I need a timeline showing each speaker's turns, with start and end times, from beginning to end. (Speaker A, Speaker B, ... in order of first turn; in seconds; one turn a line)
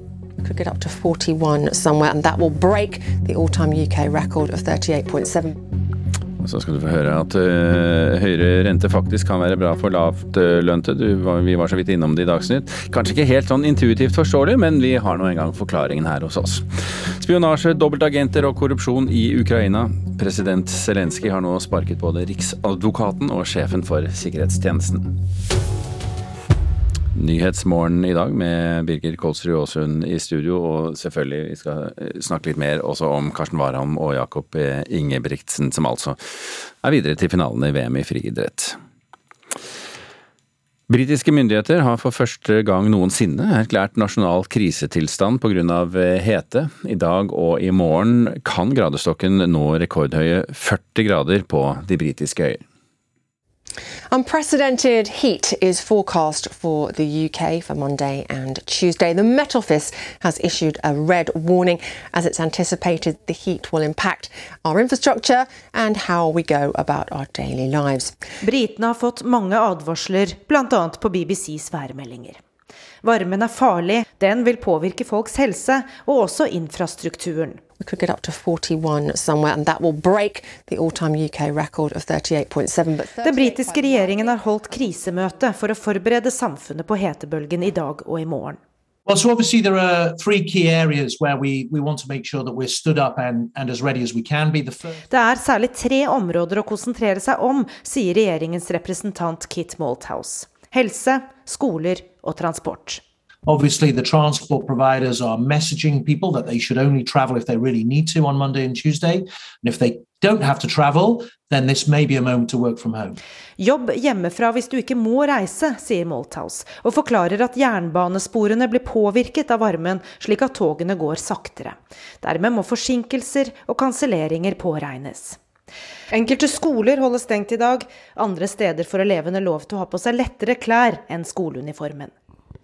Speaker A: 0.4-5.6
Speaker B: 6.4-25.1
Speaker B: 27.1-38.8
Speaker B: 40.9-52.6
Speaker A: 54.1-68.2
Speaker C: 68.4-72.4
Speaker C: 73.0-77.6
Speaker A: 77.8-84.3
Speaker C: 83.2-88.6
Speaker D: 89.1-95.0
Speaker C: 95.1-103.0
Speaker D: 103.5-113.2
Speaker C: 113.6-125.4
Speaker C: 126.1-132.1